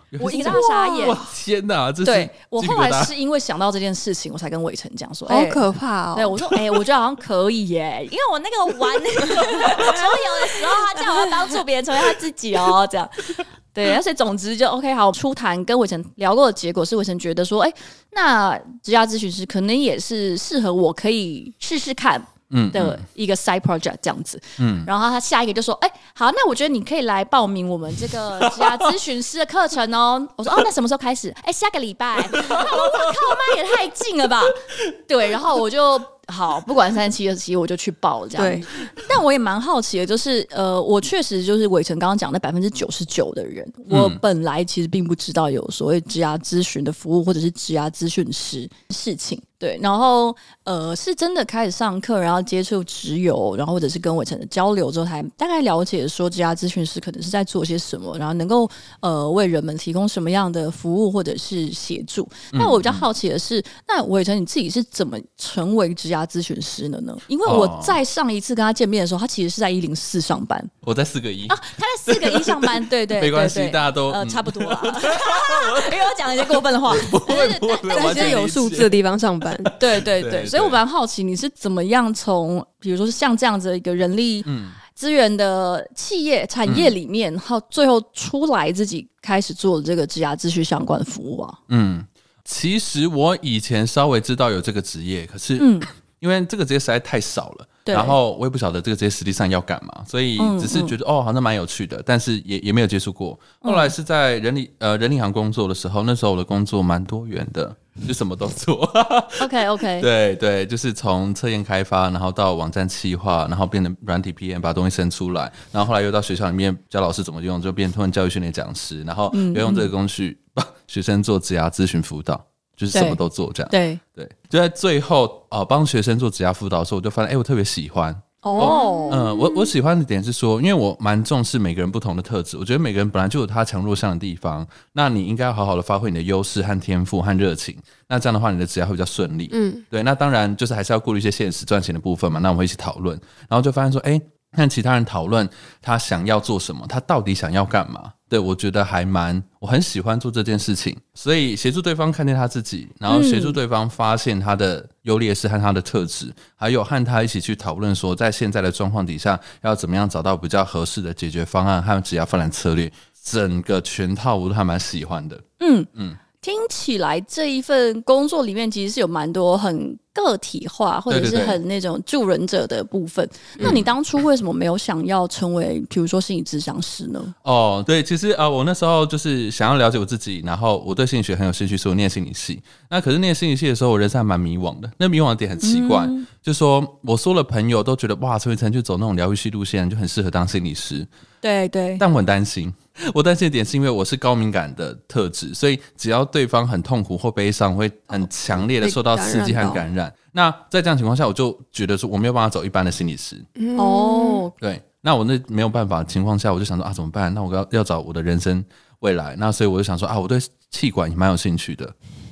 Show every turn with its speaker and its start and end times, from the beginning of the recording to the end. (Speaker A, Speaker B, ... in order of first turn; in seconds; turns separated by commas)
Speaker A: 0.1-3.1, Speaker B: 0.2-1.2, Speaker B: 2.0-5.6, Speaker C: 5.3-6.4, Speaker B: 6.1-70.7, Speaker A: 9.6-10.0, Speaker A: 22.5-23.0, Speaker A: 24.6-24.9, Speaker A: 28.5-28.8, Speaker A: 32.3-33.5, Speaker C: 38.4-38.7, Speaker A: 43.9-44.2, Speaker A: 62.5-63.1, Speaker A: 67.4-68.0, Speaker A: 70.8-79.0, Speaker B: 71.5-78.4, Speaker C: 77.9-79.7, Speaker A: 79.6-80.8, Speaker B: 79.8-91.6, Speaker A: 84.4-84.8, Speaker A: 86.7-87.0, Speaker A: 91.7-165.4, Speaker B: 95.6-95.9, Speaker B: 97.8-98.2, Speaker B: 100.4-100.9, Speaker B: 103.6-103.9, Speaker B: 109.4-110.1, Speaker B: 119.3-119.9, Speaker B: 122.9-123.2, Speaker B: 123.7-124.0, Speaker B: 128.4-129.2, Speaker C: 128.5-129.2, Speaker C: 139.5-139.8, Speaker B: 153.1-153.6, Speaker B: 165.6-165.9, Speaker B: 166.4-177.3, Speaker A: 171.1-171.6, Speaker A: 173.6-173.9, Speaker A: 177.4-191.1, Speaker B: 185.6-186.3, Speaker B: 191.4-192.0, Speaker A: 192.0-203.5, Speaker C: 198.1-199.8, Speaker C: 203.6-204.4, Speaker B: 203.8-204.5, Speaker A: 204.6-211.9